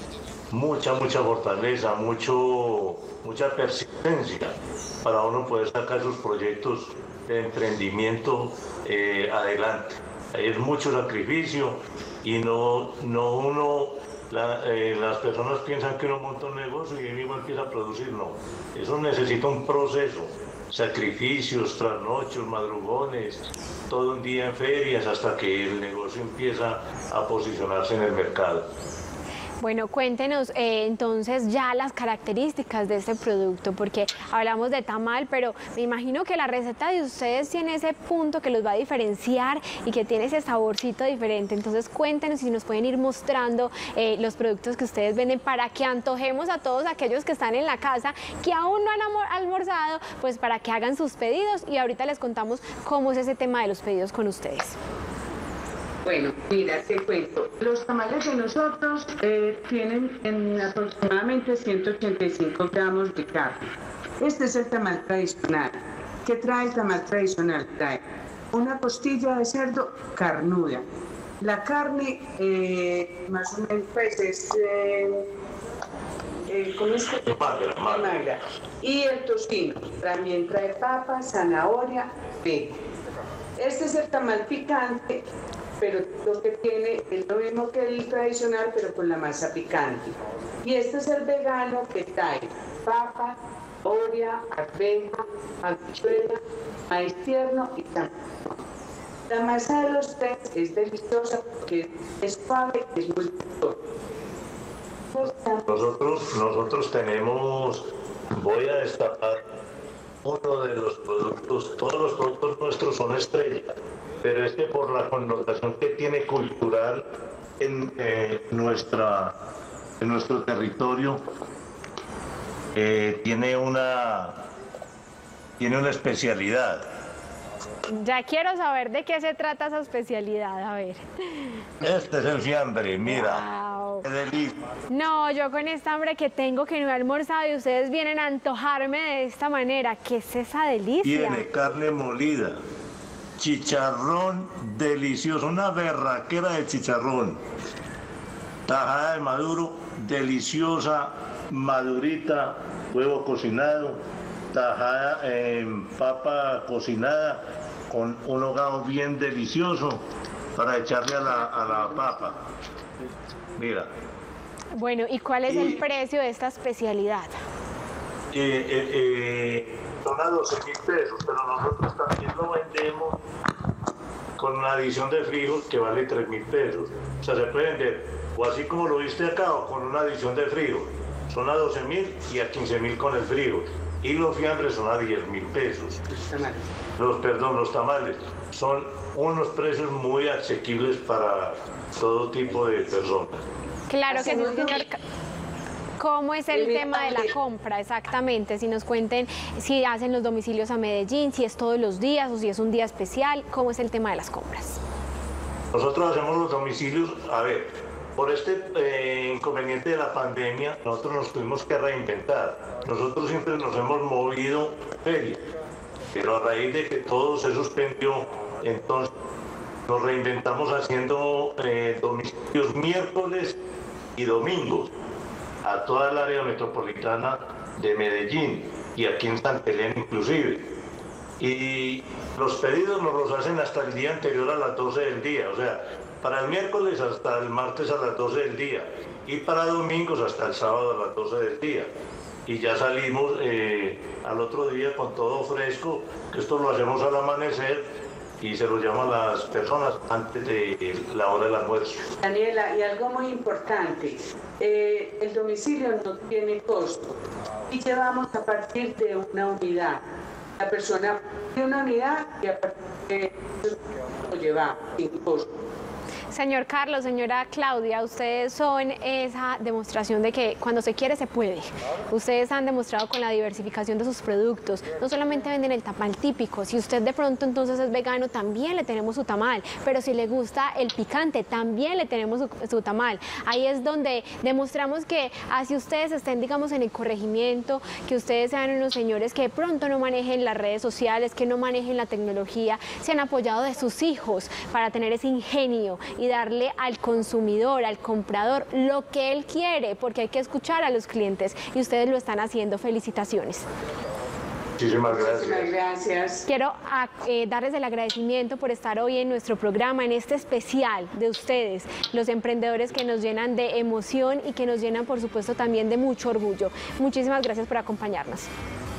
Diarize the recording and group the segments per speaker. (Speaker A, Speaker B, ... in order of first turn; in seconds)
Speaker A: 0.5-28.6, 77.2-78.2, 105.7-109.4, 110.2-117.0, 117.6-119.3, 120.0-121.2, 122.7-124.4, 125.6-126.8, 131.8-133.4, 134.0-134.6, 141.0-142.6, 143.4-147.4, 148.7-160.0, 160.6-162.4, 163.6-163.9, 165.5-165.8, 168.3-173.2, 174.4-186.0, 187.0-193.4, 205.7-215.4, 216.1-219.1, 219.9-223.6, 224.2-224.9, 225.6-230.7, 231.4-241.9, 242.4-247.9, 248.4-252.1, 304.8-305.7
Speaker B: 29.6-54.8, 127.9-131.6, 133.1-134.1, 134.9-141.4, 164.7-167.4, 193.9-195.0, 196.0-204.8, 266.3-303.6, 306.5-318.5
Speaker C: 56.0-63.7, 64.2-68.0, 68.5-70.8, 71.4-75.3, 76.5-77.3, 77.8-82.8, 83.5-85.2, 85.8-98.1, 99.3-103.8, 105.1-105.6, 186.1-186.7, 194.1-194.8, 196.5-197.3, 252.2-260.0, 260.6-265.5, 305.1-306.4